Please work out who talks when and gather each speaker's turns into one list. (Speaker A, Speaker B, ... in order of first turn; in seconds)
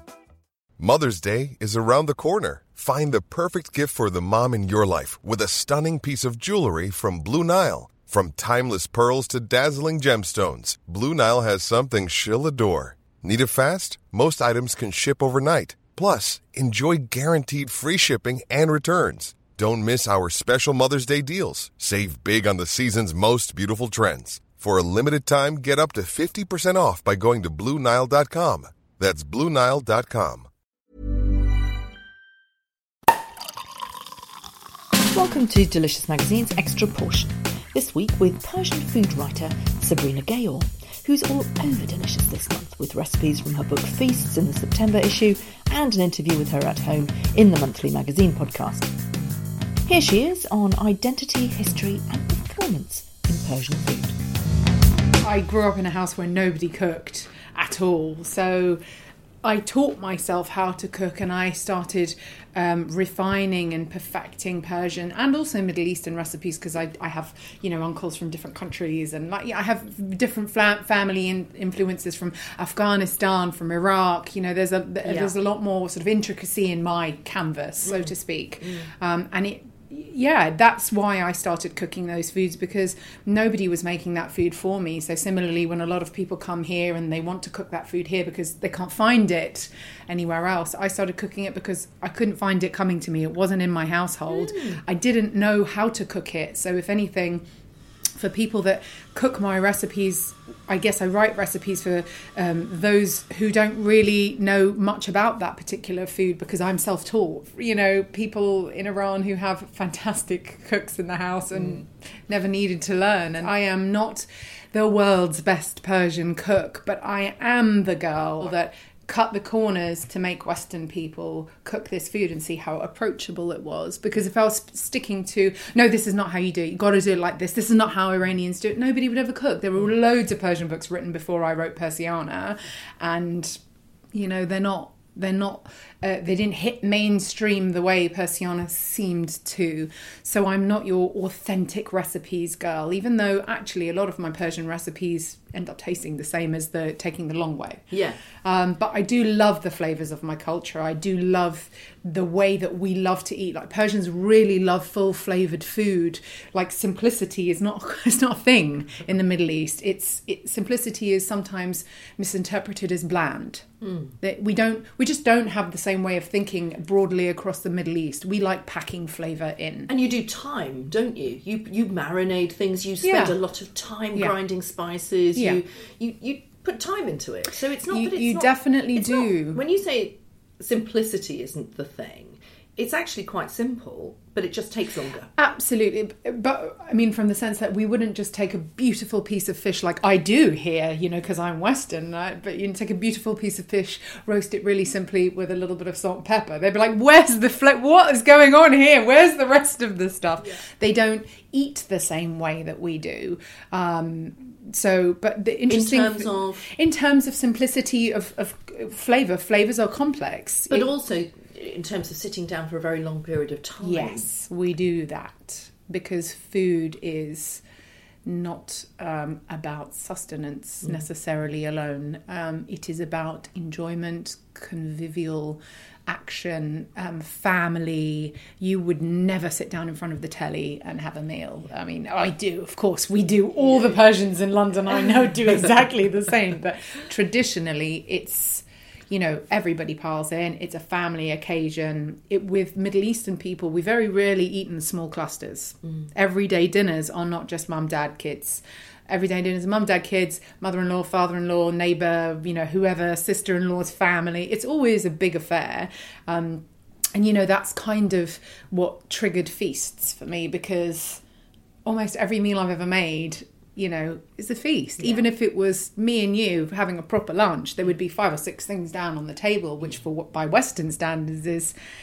Speaker A: 0.8-30.5
Speaker B: 35.1-48.9, 49.9-54.2, 75.0-75.3, 77.8-78.9, 94.3-94.8, 147.9-148.2, 163.8-164.1, 169.9-185.3, 205.7-206.7, 210.7-214.3
Speaker C: 55.2-58.8, 59.4-97.4, 98.2-133.6, 134.1-163.7, 164.2-169.9, 173.0-173.4, 175.3-175.6, 177.8-179.6, 185.4-210.9, 213.8-217.6, 218.3-261.2, 261.9-271.7